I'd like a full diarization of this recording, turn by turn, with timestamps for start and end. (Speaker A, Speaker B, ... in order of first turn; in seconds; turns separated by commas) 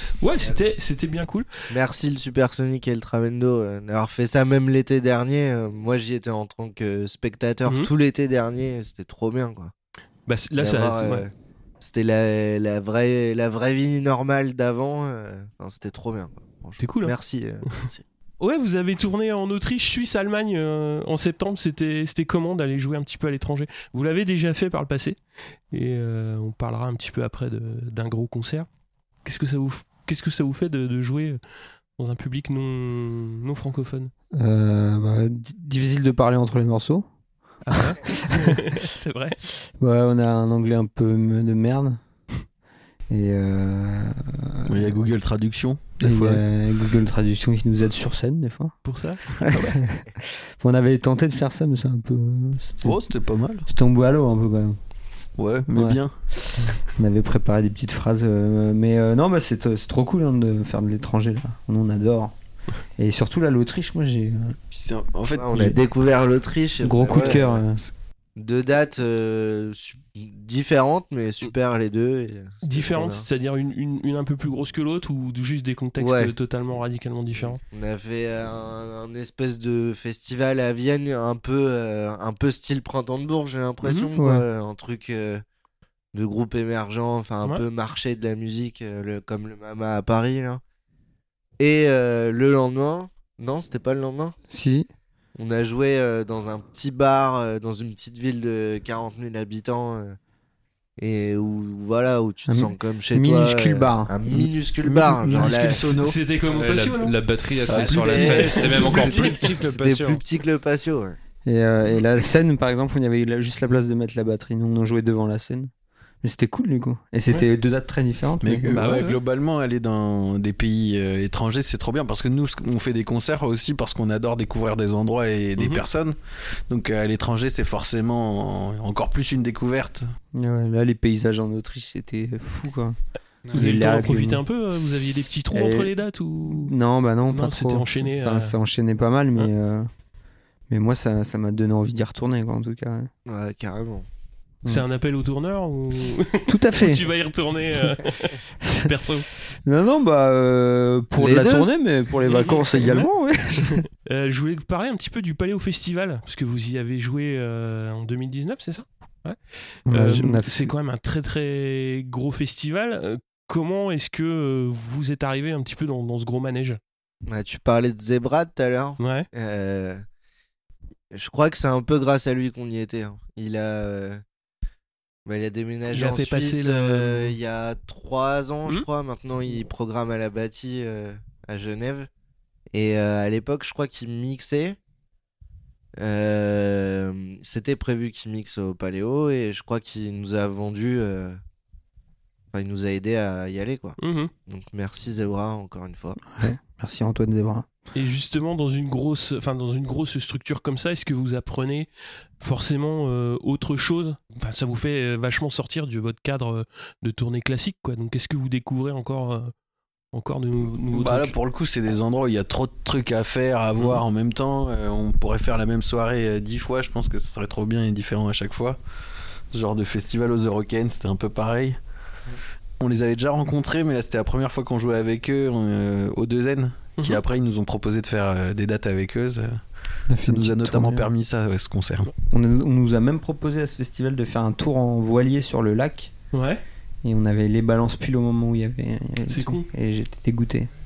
Speaker A: 0.2-1.5, Speaker B: 1.7-9.7, Speaker A: 10.3-11.2, Speaker B: 10.6-18.0, Speaker A: 16.8-17.1, Speaker A: 18.4-25.2, Speaker A: 25.7-28.7, Speaker A: 29.2-31.4, Speaker A: 32.0-34.1, Speaker C: 34.3-37.1, Speaker A: 37.6-39.4, Speaker C: 37.8-38.3, Speaker C: 39.6-42.0, Speaker C: 43.1-45.1, Speaker D: 44.7-46.4, Speaker C: 46.0-48.9, Speaker A: 48.8-49.8, Speaker C: 49.4-53.1, Speaker D: 52.8-53.7, Speaker C: 53.7-54.8, Speaker D: 55.3-56.7, Speaker C: 55.7-56.0, Speaker C: 56.9-62.3, Speaker C: 63.0-64.6, Speaker D: 64.7-65.8, Speaker B: 65.3-67.6, Speaker C: 66.8-67.9, Speaker D: 67.1-67.4, Speaker B: 68.3-73.2, Speaker A: 72.6-77.6, Speaker B: 76.0-76.3, Speaker B: 77.4-85.4, Speaker A: 83.8-84.1, Speaker C: 84.1-84.4, Speaker B: 86.1-90.6, Speaker B: 91.6-94.3, Speaker C: 94.5-94.9, Speaker B: 95.4-100.2, Speaker B: 101.0-106.0, Speaker C: 102.5-104.5, Speaker D: 104.8-106.2, Speaker A: 106.0-107.1, Speaker E: 106.5-110.2, Speaker D: 107.7-108.5, Speaker B: 107.7-111.2, Speaker A: 108.1-109.5, Speaker C: 111.4-119.0, Speaker D: 118.4-126.1, Speaker A: 118.7-119.2, Speaker A: 125.6-125.8, Speaker D: 126.7-130.1, Speaker C: 130.3-133.0, Speaker C: 133.5-134.4, Speaker A: 133.5-136.7, Speaker C: 135.5-139.9, Speaker A: 137.3-138.5, Speaker C: 140.7-143.1, Speaker B: 143.2-144.1, Speaker A: 144.7-149.3, Speaker C: 146.5-147.1, Speaker C: 149.5-153.8, Speaker B: 151.2-151.7, Speaker A: 152.3-153.1, Speaker A: 153.6-166.8, Speaker C: 159.9-160.7, Speaker B: 167.3-170.0, Speaker A: 169.0-169.3, Speaker B: 171.1-174.2, Speaker B: 175.2-182.1, Speaker A: 175.9-177.3, Speaker B: 182.7-184.8, Speaker B: 186.0-191.4, Speaker B: 192.5-196.3, Speaker A: 194.0-194.3, Speaker C: 196.3-197.7, Speaker A: 197.9-201.9, Speaker A: 202.4-209.5, Speaker A: 210.1-211.3, Speaker D: 210.9-218.8, Speaker A: 213.8-214.0, Speaker D: 219.5-221.8, Speaker D: 222.8-229.6, Speaker A: 227.0-227.2, Speaker C: 230.1-231.1, Speaker D: 230.2-232.1, Speaker C: 232.3-236.1, Speaker A: 236.3-236.6, Speaker C: 237.0-240.7, Speaker A: 239.3-239.7